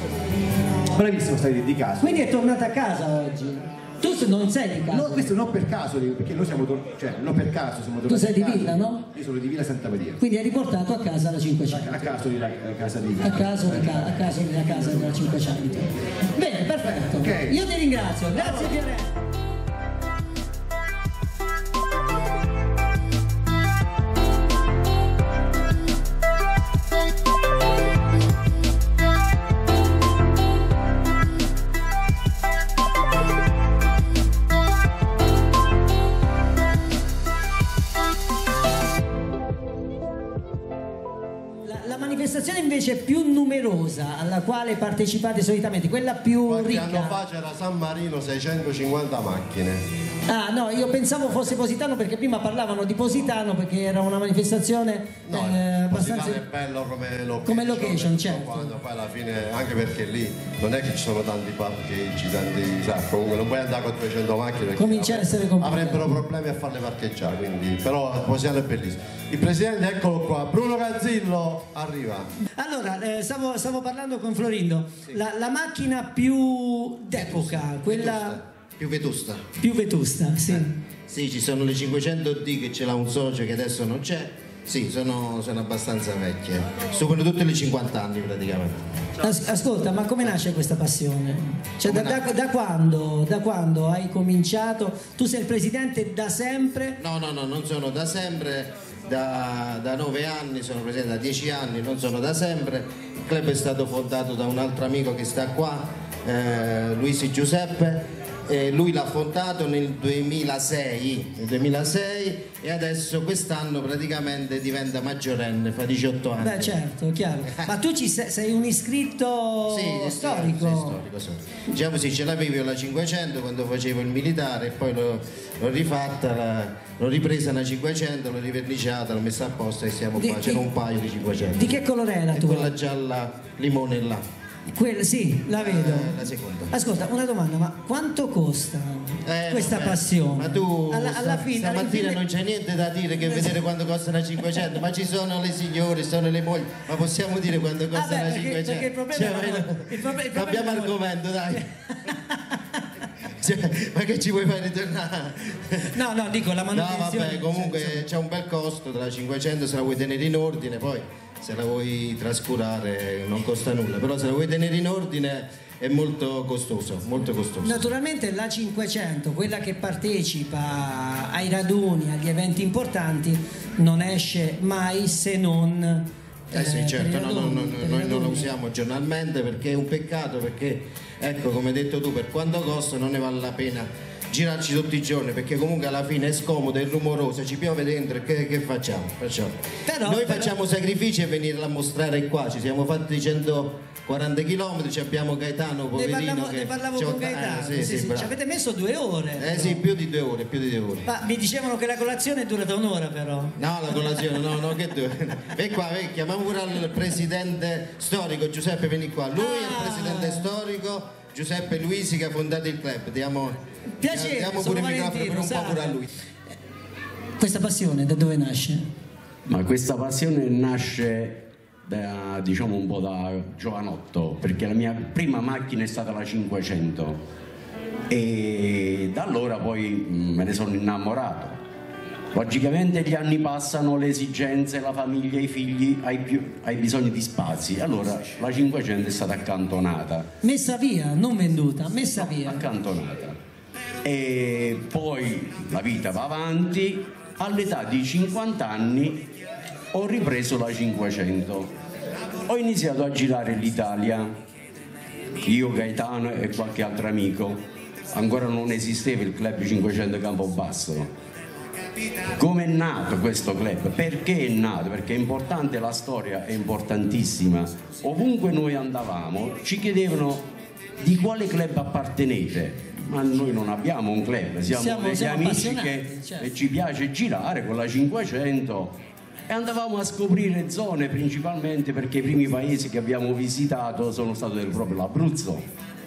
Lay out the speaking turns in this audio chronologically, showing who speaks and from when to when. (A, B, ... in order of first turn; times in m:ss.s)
0:00.9-0:02.2 A
0:02.0-0:05.3 B
0:04.9-0:10.2 A
0:08.1-0:09.1 B
0:10.2-0:12.2 B
0:11.7-0:15.3 A
0:13.2-0:19.1 B
0:16.8-0:17.6 A
0:41.6-0:47.2 B
0:46.5-0:49.8 C
0:50.3-0:56.4 B
0:55.3-1:12.3 C
0:57.5-0:58.7 B
1:04.8-1:06.1 B
1:12.6-1:18.4 B
1:17.2-1:19.5 D
1:19.6-1:20.7 B
1:20.5-1:28.8 D
1:29.2-1:37.0 B
1:31.8-1:32.2 D
1:37.0-1:56.8 D
1:56.4-2:01.0 B
1:59.7-2:11.8 D
2:10.2-2:10.6 B
2:11.5-2:12.7 B
2:12.3-2:14.2 D
2:14.7-2:16.2 B
2:15.5-2:16.7 D
2:16.7-2:22.2 B
2:19.3-2:31.6 D
2:27.9-2:31.0 B
2:31.6-2:32.6 B
2:33.4-2:36.0 D
2:35.9-2:38.0 B
2:36.7-2:47.8 D
2:47.6-2:58.5 B
2:56.5-3:18.3 D
3:09.8-3:10.5 B
3:16.0-3:19.8 B
3:19.4-3:21.1 D
3:21.1-3:23.5 B
3:23.6-3:36.1 D
3:29.4-3:30.5 B
3:34.0-3:35.9 B
3:37.4-3:38.9 B
3:39.5-3:47.2 E
3:48.1-3:51.6 E
3:52.3-4:00.3 E
4:00.4-4:02.7 B
4:02.2-4:03.4 E
4:04.0-4:09.3 E
4:09.9-4:11.7 E
4:12.5-4:14.4 E
4:15.4-4:21.1 E
4:22.3-4:30.5 E
4:31.0-4:45.7 E
4:34.7-4:36.5 B